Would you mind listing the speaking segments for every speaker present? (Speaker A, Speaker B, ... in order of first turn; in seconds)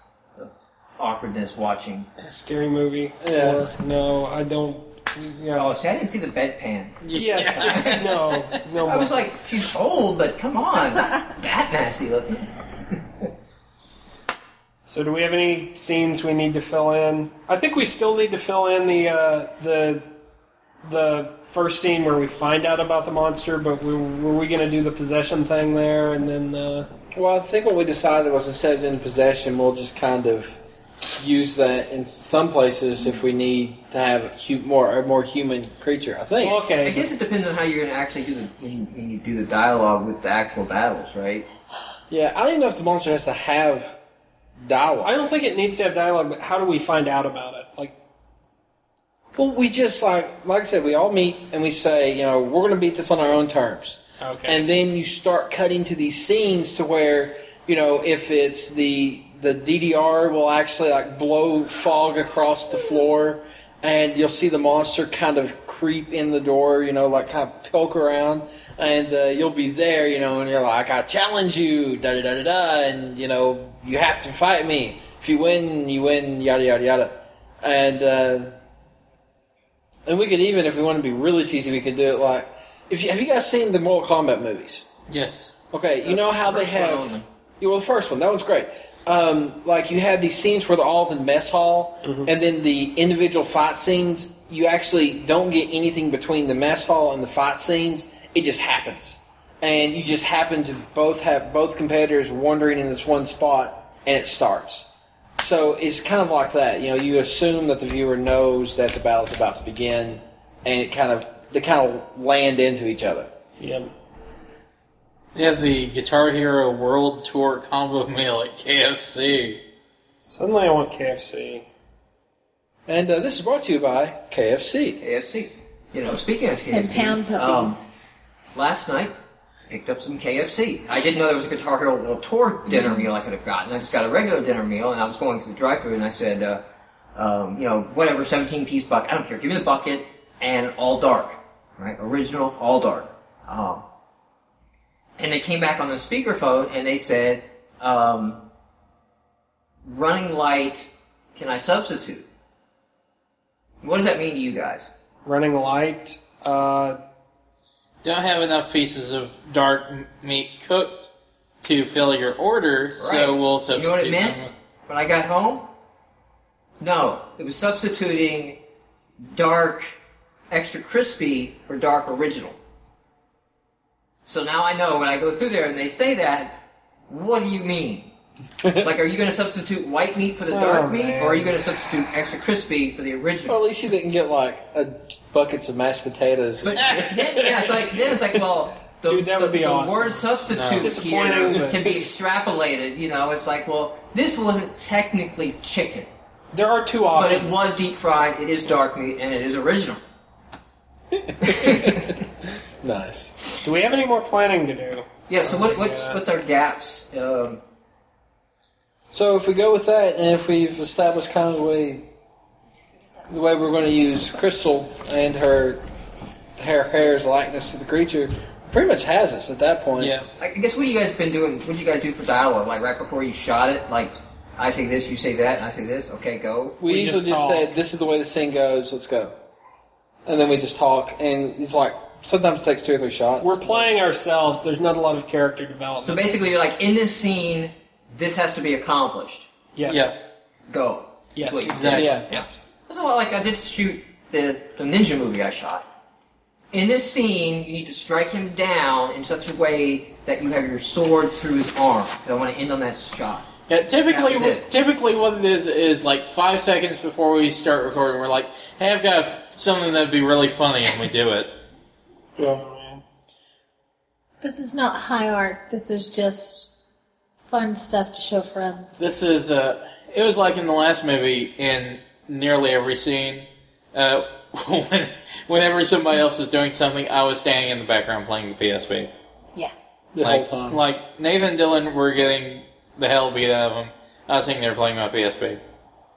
Speaker A: 0.4-2.1, 5.5-7.0, 8.8-13.0, 36.8-41.4, 86.0-87.2, 125.0-127.8, 128.5-129.1, 129.7-136.6, 137.2-143.8, 145.2-148.4, 149.8-152.2, 153.8-154.9, 163.0-165.7, 166.8-168.6, 169.3-170.0, 170.5-172.6, 174.3-176.6, 177.1-178.1, 178.8-183.6, 186.6-196.1, 197.1-200.0, 201.4-202.2, 205.3-207.6, 220.4-226.8, 236.0-239.5, 240.7-245.8, 246.7-253.5, 254.1-254.6
Speaker B: 2.2-5.8, 7.1-9.2, 14.8-20.0, 20.8-26.9, 36.4-37.1, 45.0-47.9, 54.2-54.6, 92.0-92.3, 113.6-113.9, 120.2-121.7, 155.2-157.0, 180.5-181.6, 189.1-190.2, 190.8-191.9, 196.5-197.7, 203.6-206.2, 226.8-227.7, 233.4-236.3, 239.8-240.1, 241.3-242.6, 262.4-263.0
Speaker C: 3.2-3.7, 27.1-30.6, 31.1-36.6, 42.1-44.0, 44.6-45.2, 49.3-78.5, 80.0-84.8, 85.7-113.3, 122.9-125.0, 178.6-178.9, 183.5-188.4, 201.1-202.1, 202.8-203.5, 209.1-212.0, 213.3-215.8, 216.6-220.1, 226.8-229.3, 230.2-233.9, 241.9-242.3, 280.1-280.8
Speaker D: 7.0-8.5, 85.1-85.5, 115.3-119.6, 158.0-161.1, 161.6-164.5, 190.5-191.0, 220.0-220.3, 239.9-240.1, 241.7-242.2, 253.7-261.5, 269.0-279.1, 280.2-285.6
Speaker E: 126.7-127.9, 264.4-266.7, 267.5-269.0